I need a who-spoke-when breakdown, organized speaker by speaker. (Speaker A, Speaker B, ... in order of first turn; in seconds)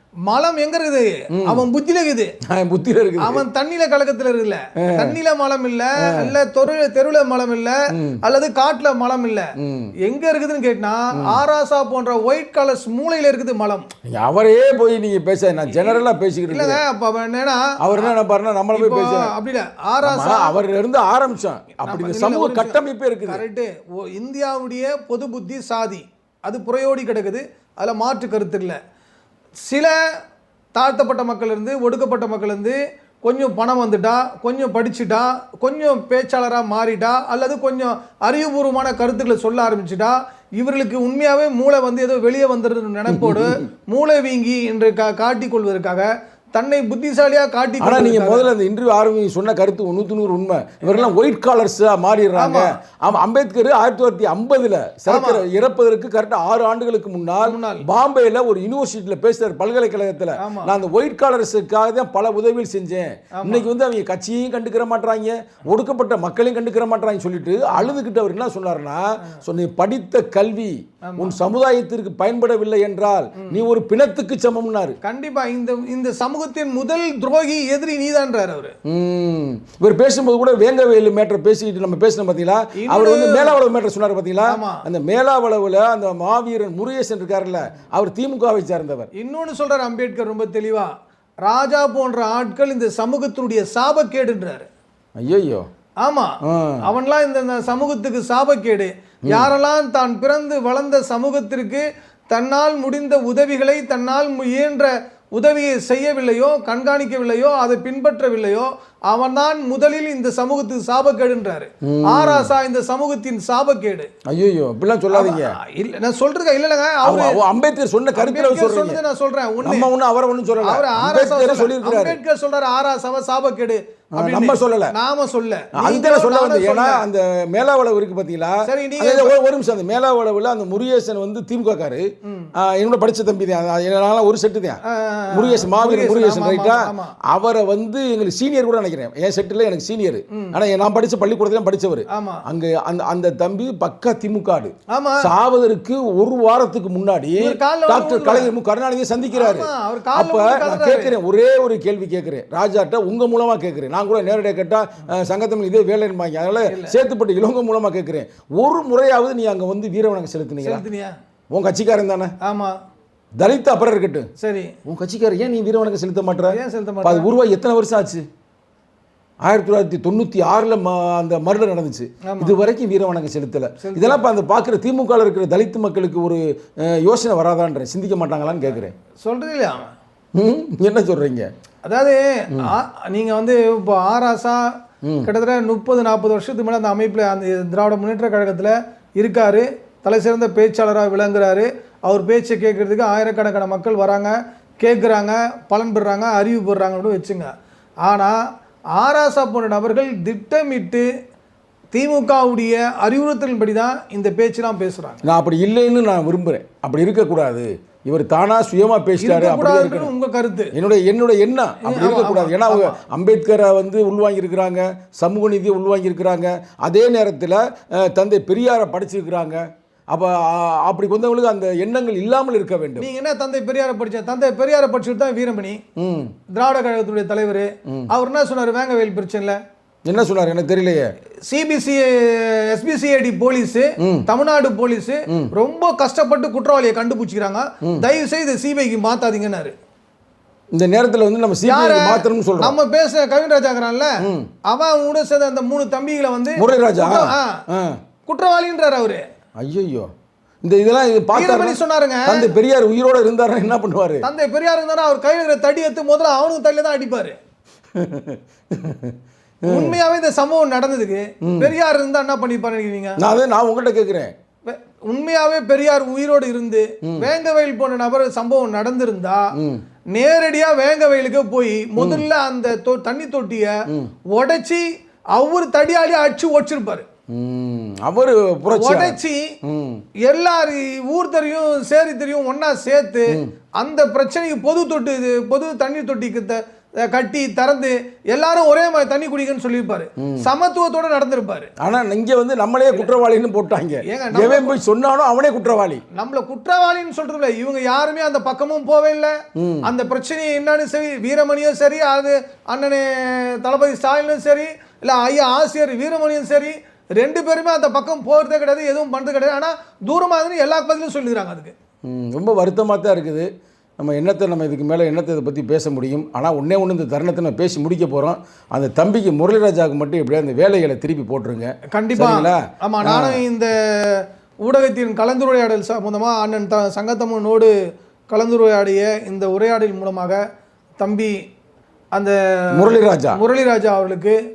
Speaker A: 0.3-2.3, 3.2-9.5, 10.0-13.9, 15.7-18.1, 18.8-20.6, 21.9-28.8, 29.6-30.0, 30.8-48.5, 50.8-51.1, 52.4-52.8, 55.1-55.4, 57.4-57.8, 60.4-60.7, 63.4-63.7, 67.7-68.0, 71.0-71.4, 73.4-73.7, 75.0-78.8, 82.8-83.6, 84.5-84.8, 89.2-94.7, 96.0-114.1, 115.1-117.4, 118.2-119.9, 120.6-127.0, 128.6-129.3, 132.2-132.5, 134.9-137.2, 140.3-140.6, 142.1-142.5, 144.9-145.3, 147.4-148.5, 149.3-151.2, 156.7-156.9, 160.6-161.2, 162.4-162.8, 164.4-164.7, 166.5-167.3, 172.3-172.6, 173.8-174.2, 179.2-179.9, 181.9-184.7, 185.2-197.5, 198.1-198.4, 199.0-201.1, 201.9-205.2, 209.2-210.7, 211.8-213.0, 223.0-225.8, 226.5-229.6, 231.5-239.7, 241.7-247.6, 248.3-249.2, 251.3-252.5, 254.2-257.4, 259.7-263.2, 264.7-269.5, 270.1-273.8, 274.3-277.1, 278.7-279.6, 280.2-291.7, 294.1-294.8, 296.2-311.7, 321.9-327.7, 328.3-330.4, 331.0-331.4, 332.1-334.4
Speaker B: 1.3-1.7, 2.5-3.5, 4.8-5.2, 6.0-6.3, 7.9-8.2, 9.6-9.9, 11.2-11.4, 14.1-16.8, 17.8-19.3, 20.0-23.4, 43.1-43.7, 47.8-75.0, 78.9-89.1, 95.2-95.7, 96.5-96.9, 99.3-99.5, 111.8-112.5, 114.3-115.6, 117.0-119.0, 119.6-122.2, 124.2-124.9, 125.8-132.1, 132.6-134.8, 135.3-160.8, 161.5-162.3, 163.4-164.3, 164.9-168.3, 169.4-178.9, 180.3-181.5, 185.0-185.3, 205.2-210.1, 210.7-223.1, 226.0-226.3, 230.1-231.1, 234.0-234.3, 240.7-242.8, 244.2-244.5, 246.6-248.0, 249.6-250.1, 250.6-254.2, 257.9-260.0, 261.4-261.8, 263.2-264.3, 269.6-269.8, 272.0-272.3, 273.9-274.1, 277.3-280.1, 290.2-290.5, 291.8-296.0, 299.6-299.9, 312.1-323.4, 332.8-333.4